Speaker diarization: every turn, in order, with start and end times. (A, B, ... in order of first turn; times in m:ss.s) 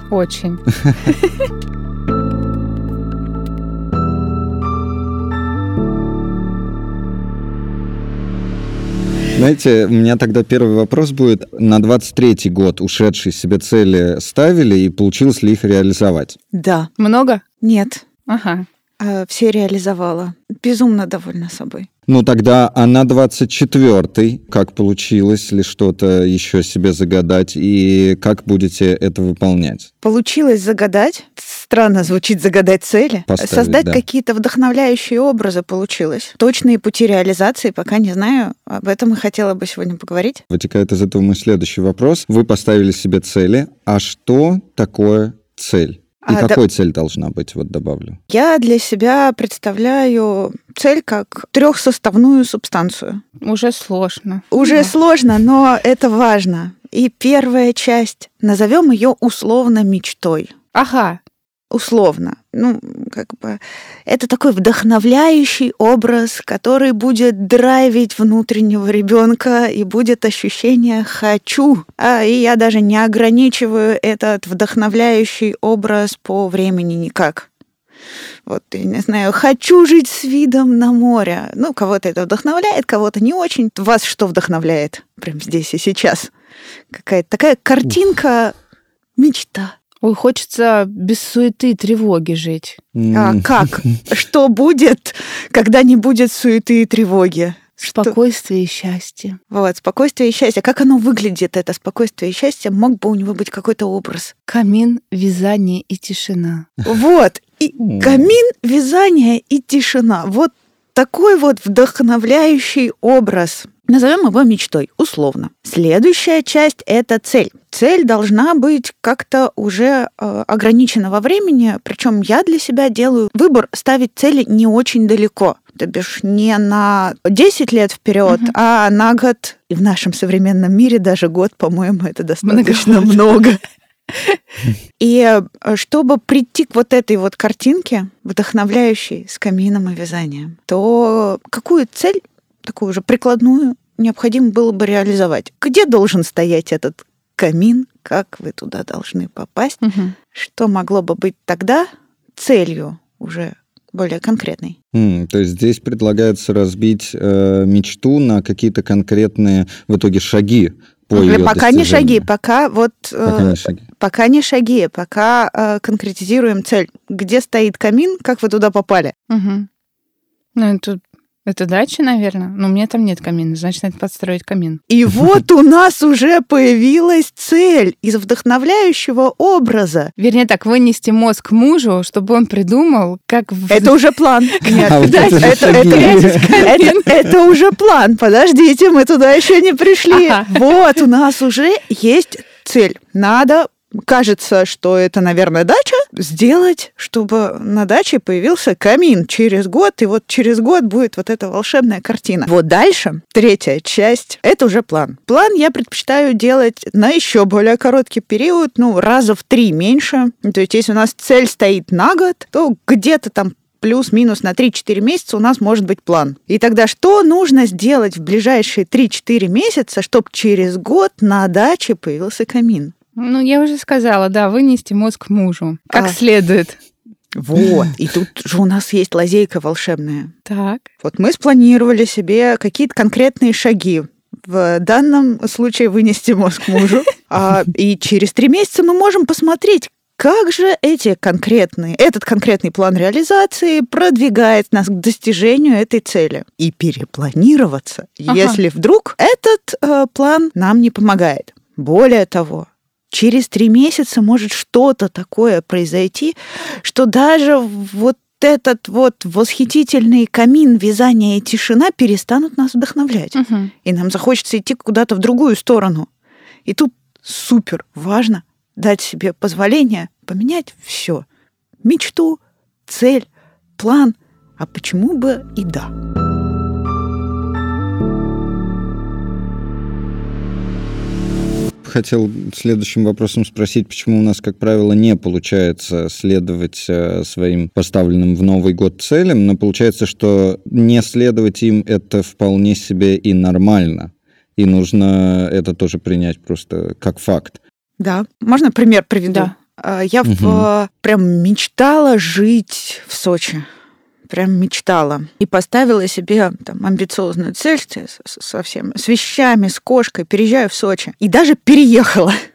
0:00.1-0:01.5 A
0:09.3-0:16.4 B
0:16.5-0:16.9 C
0:17.0-0:17.4 A
0:17.6-0:18.0 C
0:18.3-0:18.7 A
0:19.0-0:21.9 C
0:22.1-0:29.9 B
0:30.0-0:40.4 C
0:33.3-0:34.0 B
0:40.5-0:48.2 B
0:46.3-0:46.6 C
0:48.3-0:53.2 C
0:53.4-0:54.9 A
0:54.5-1:00.5 C
1:00.7-1:01.2 A
1:01.7-1:17.5 C
1:18.5-1:26.3 C
1:26.9-1:28.5 C
1:29.2-1:29.8 C
1:30.0-1:32.8 A
1:33.0-1:34.0 B
1:33.1-1:38.2 C
1:37.8-1:39.4 A
1:39.5-1:44.3 C
1:44.5-1:46.7 A
1:46.8-2:13.6 C
1:47.8-1:48.3 B
2:12.4-2:13.4 A
2:14.1-2:14.4 A
2:15.0-2:34.8 C
2:29.8-2:30.1 A
2:34.9-2:42.3 B
2:41.1-2:49.1 C
2:43.2-2:43.8 B
2:49.3-2:49.7 A
2:50.6-2:54.8 A
2:54.9-3:00.1 C
3:00.2-3:07.2 A
3:03.7-3:42.9 C
3:04.7-3:07.0 B
3:10.1-3:10.6 A
3:43.2-3:46.8 A
3:45.9-3:46.2 C
3:47.3-3:50.3 C
3:50.5-3:50.9 A
3:51.0-4:26.1 C
4:08.3-4:08.6 A
4:23.4-4:23.7 A
4:26.6-4:31.2 C
4:31.8-4:33.2 C
4:33.8-4:35.9 C
4:41.8-4:57.6 B
4:58.0-5:03.6 C
5:00.2-5:00.7 B
5:04.3-5:12.4 C